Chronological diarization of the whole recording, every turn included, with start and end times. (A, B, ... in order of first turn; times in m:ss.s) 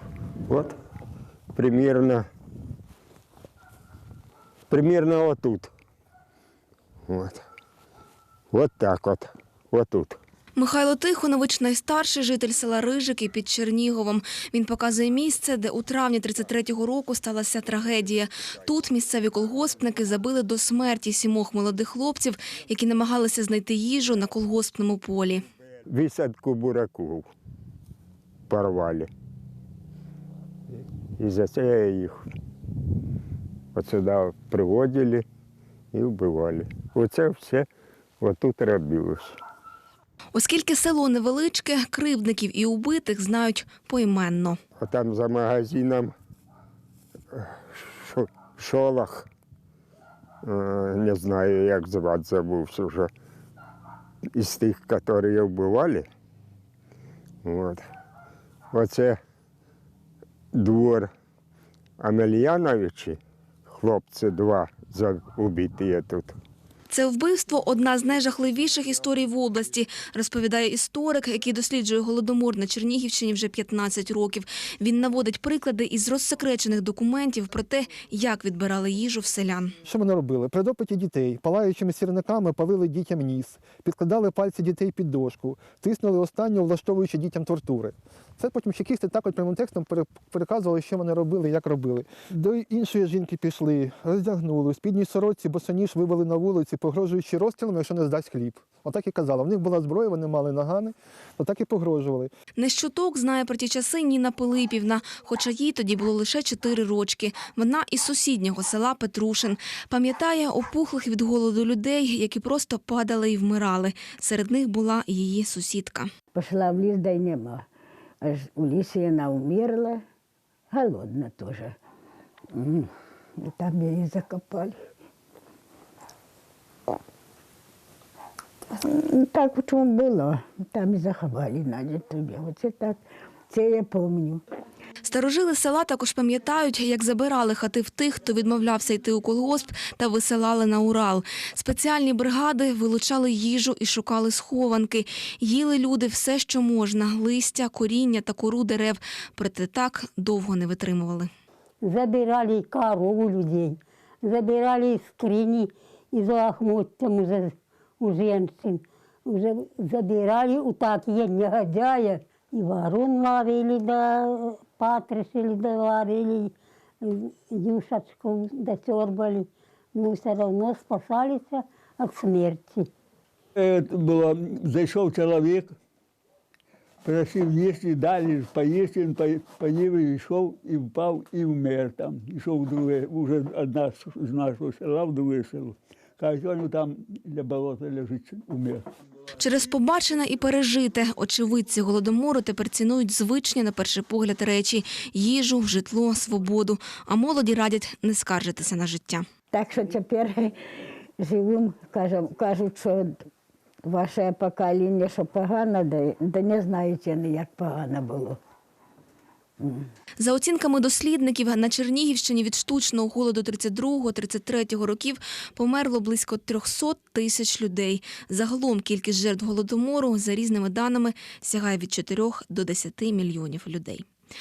0:00.5-0:00.8 A
0:01.5-0:02.3 A
0:04.7-0:05.7 A
0:07.1-0:07.4 A
0:08.5-0:10.2 A
0:10.6-0:25.5 B
0:25.9-0:27.3 A
0:28.5-0:29.1 A
0:31.2-0:32.2 A
0:33.7-0:35.2 A
0:35.9-0:37.7 A
0:38.2-0:39.4 A
0:40.3-0:44.6 B
0:44.8-0:46.1 A
0:47.3-0:49.3 A
0:50.4-0:53.1 A
0:54.3-0:56.1 A
0:57.4-0:57.8 A
0:58.7-0:59.2 A
1:00.5-1:01.1 A
1:02.0-1:06.4 A
1:06.9-1:19.8 B
1:19.8-1:42.3 C
1:42.6-1:56.1 B
1:56.4-1:57.6 D
1:58.2-2:00.0 D
2:00.7-2:01.7 D
2:02.5-2:04.8 D
2:08.8-2:13.0 D
2:13.5-2:14.4 D
2:15.0-2:31.3 B
2:31.8-2:52.9 E
2:53.6-2:55.7 F
2:57.0-3:08.8 F
3:09.4-3:19.2 B
3:19.5-3:20.6 D
3:21.2-3:23.2 D
3:23.8-3:28.4 D
3:29.6-3:29.9 D
3:30.2-3:44.1 B